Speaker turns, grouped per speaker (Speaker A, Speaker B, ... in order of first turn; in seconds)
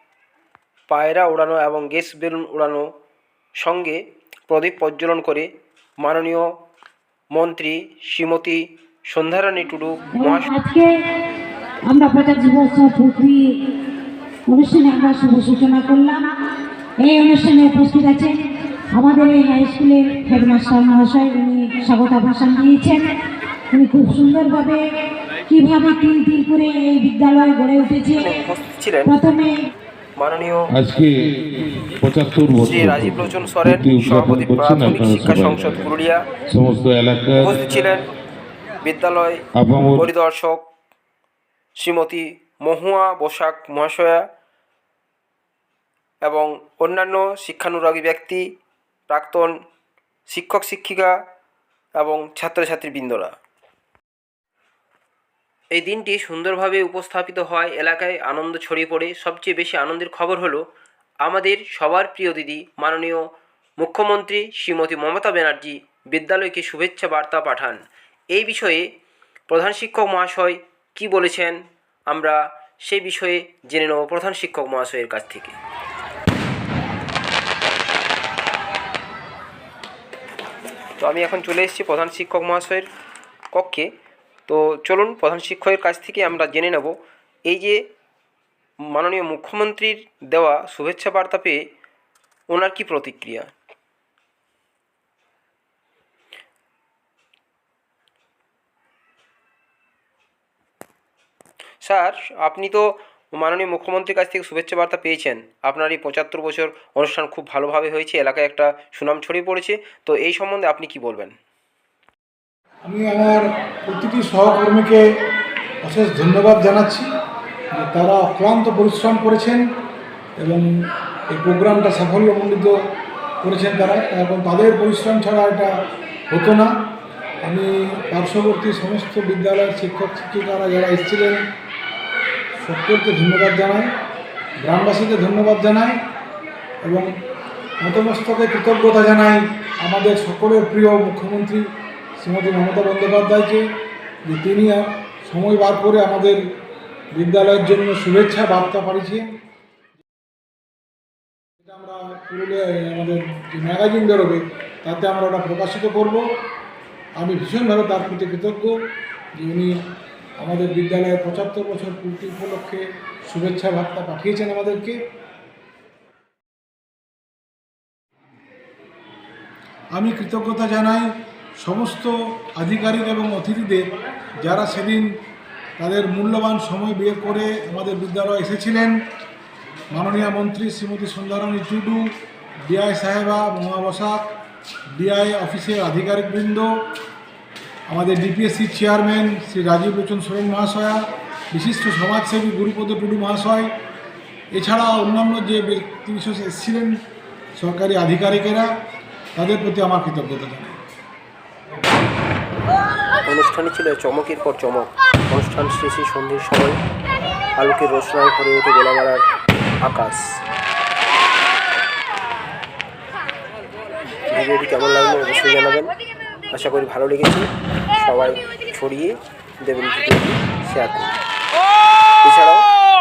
Speaker A: 0.9-2.9, 3.6-5.5, 6.0-6.5, 7.3-10.5, 28.1-29.1, 30.2-30.7, 32.5-36.2, 37.4-38.0, 38.8-39.4, 39.9-40.6, 41.8-44.2, 46.2-48.5, 49.1-49.5, 50.3-51.1, 52.0-53.3, 55.7-60.6, 61.2-63.2, 63.8-67.8, 68.3-68.9, 69.5-75.5, 81.0-82.9, 83.5-83.9, 84.5-87.8, 88.9-91.6, 92.5-93.5, 101.8-111.3, 203.2-206.8, 207.6-209.2, 209.8-210.4, 214.3-215.9, 216.5-217.4, 218.0-221.1, 222.2-222.6
Speaker B: 10.2-10.9, 11.9-13.4, 14.5-16.2, 17.0-18.3, 18.9-23.0, 23.7-24.8, 25.5-28.3, 29.1-29.5
Speaker C: 30.7-35.9, 36.5-37.6, 39.5-40.1
Speaker D: 112.8-115.0, 115.8-117.1, 117.8-119.6, 120.4-120.6, 121.3-122.7, 123.4-125.7, 126.3-126.7, 127.4-131.4, 132.6-133.9, 134.6-136.0, 136.8-137.1, 137.8-141.7, 142.2-143.7, 144.2-146.4, 147.1-149.3, 151.6-156.3, 157.2-158.8, 159.3-159.8, 160.4-165.0, 169.9-175.1, 175.8-179.0, 179.9-182.1, 182.7-184.3, 184.9-186.8, 187.9-193.7, 194.5-196.9, 197.6-198.7, 199.3-200.8